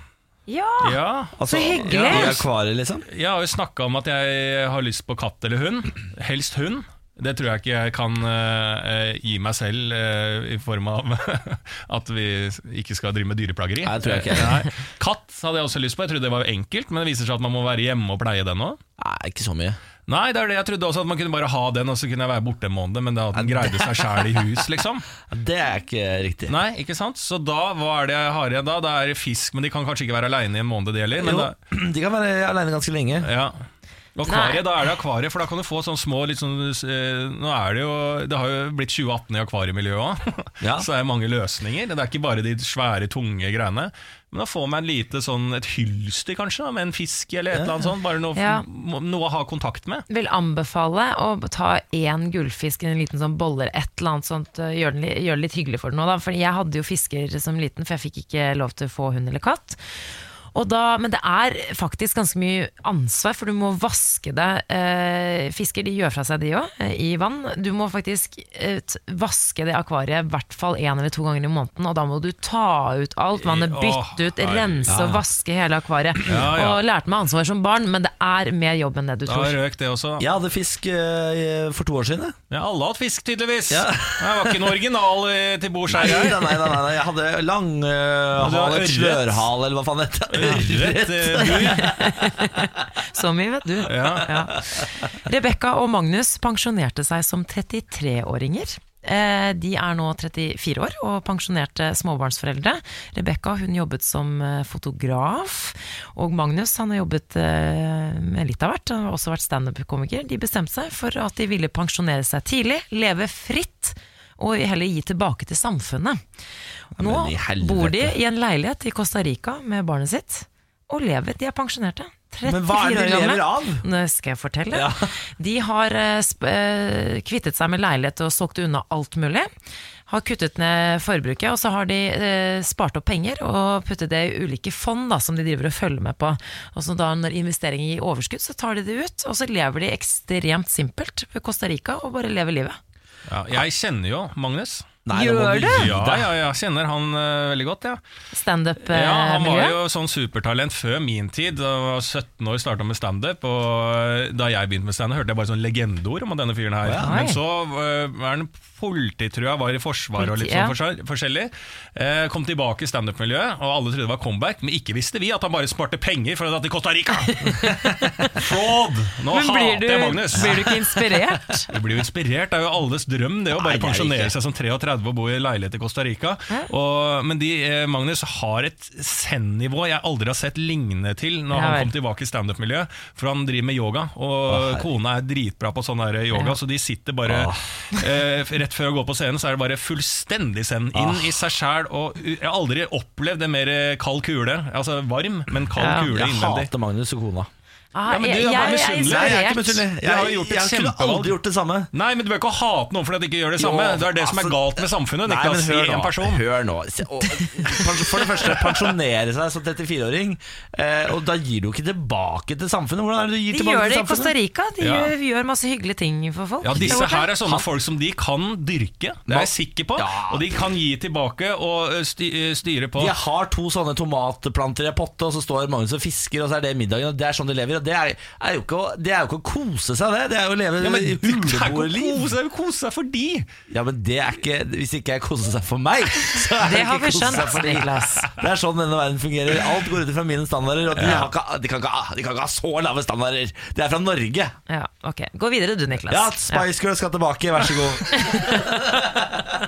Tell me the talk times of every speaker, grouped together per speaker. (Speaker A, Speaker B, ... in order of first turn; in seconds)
Speaker A: 0.5-2.4, 34.3-34.6, 48.4-48.6, 50.1-59.8, 60.5-79.6, 91.4-116.2, 117.0-129.5, 130.1-142.8, 145.1-145.9, 148.3-149.8, 157.0-157.4, 160.2-160.8, 167.4-168.5, 169.3-171.7, 181.5-181.9, 195.8-196.1, 197.9-199.9, 213.5-217.3, 236.6-238.3, 244.7-246.7, 248.1-248.7
Speaker B: 0.8-2.5, 3.1-18.8, 20.1-25.1, 26.5-31.5, 33.2-33.5, 34.2-50.0, 73.4-75.0, 76.3-76.8, 79.3-80.2, 82.5-86.7, 88.4-89.5, 90.3-92.1, 93.8-94.3, 143.3-144.9, 145.7-148.0, 148.9-171.0, 171.7-196.7, 198.1-201.3, 201.9-206.4, 214.8-215.1, 216.6-223.1, 230.8-233.5, 241.0-241.3
Speaker C: 1.4-3.1, 13.8-14.7, 19.0-19.8, 23.3-24.3, 25.3-26.6, 31.2-33.3, 40.6-40.9, 47.5-47.8, 74.9-75.2, 80.2-82.4, 83.7-84.8, 85.9-92.0, 94.3-94.9, 117.0-118.2, 122.5-123.8, 124.7-125.1, 145.1-146.3, 156.8-157.2, 173.5-174.3, 184.5-184.9, 187.2-187.6, 190.9-191.4, 195.9-197.5, 198.9-201.9, 203.6-214.3, 216.7-217.7, 219.3-220.7, 223.0-232.3, 233.7-244.6, 246.1-249.6